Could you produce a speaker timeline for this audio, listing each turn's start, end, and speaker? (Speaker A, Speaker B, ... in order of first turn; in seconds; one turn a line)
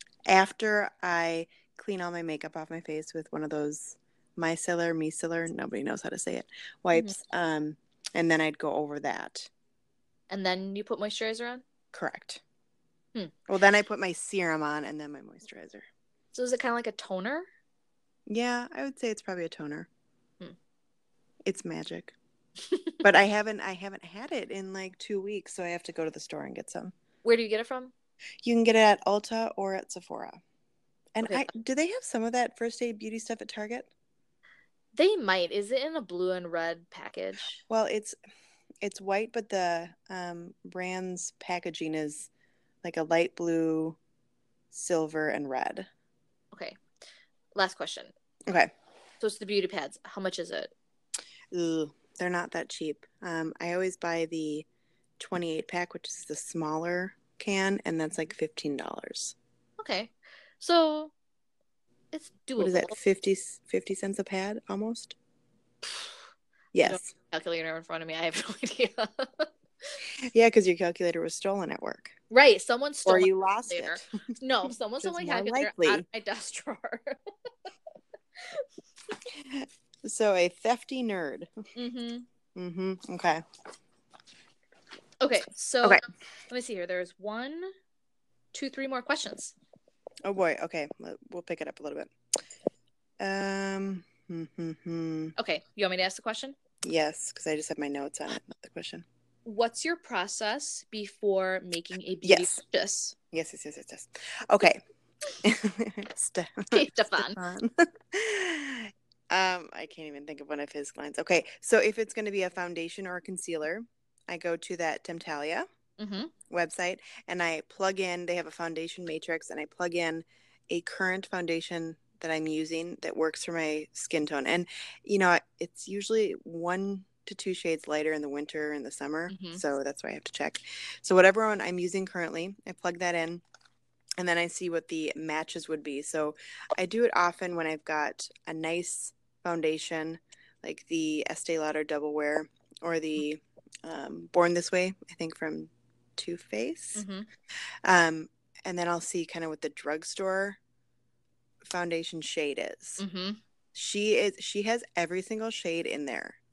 Speaker A: 0.2-9.5
Speaker B: 10.3-11.6
Speaker A: 11.9-12.4
Speaker A: 13.5-15.8
Speaker B: 16.3-17.4
Speaker A: 18.3-19.9
Speaker A: 21.4-22.1
Speaker B: 22.7-23.0
Speaker A: 23.0-26.9
Speaker B: 27.2-27.9
Speaker A: 28.4-30.4
Speaker A: 31.1-33.9
Speaker B: 31.2-31.5
Speaker B: 34.9-37.6
Speaker A: 37.7-38.1
Speaker A: 38.8-42.3
Speaker A: 42.8-44.0
Speaker A: 44.7-45.9
Speaker B: 46.5-46.8
Speaker B: 47.5-48.1
Speaker A: 48.5-48.7
Speaker B: 49.2-50.7
Speaker A: 51.5-54.6
Speaker A: 55.2-59.3
Speaker B: 59.8-61.1
Speaker B: 62.1-63.0
Speaker A: 62.6-65.1
Speaker A: 66.7-67.1
Speaker B: 66.8-70.0
Speaker A: 70.3-72.1
Speaker B: 72.3-77.2
Speaker A: 73.0-74.2
Speaker A: 75.0-76.0
Speaker B: 78.4-78.6
Speaker A: 79.3-81.5
Speaker B: 81.8-82.2
Speaker A: 82.5-83.4
Speaker B: 85.2-87.7
Speaker B: 88.5-89.5
Speaker A: 90.2-92.1
Speaker A: 93.2-95.3
Speaker B: 95.3-96.5
Speaker A: 96.8-99.0
Speaker B: 99.4-103.1
Speaker A: 102.2-102.6
Speaker A: 103.3-104.8
Speaker A: 105.4-115.7
Speaker B: 106.7-107.4
Speaker B: 116.0-116.3
Speaker A: 116.5-133.4
Speaker B: 129.3-129.6
Speaker A: 134.2-147.0
Speaker B: 146.9-147.3
Speaker A: 147.8-150.6
Speaker A: 151.6-153.0
Speaker B: 153.0-153.4
Speaker A: 153.7-156.4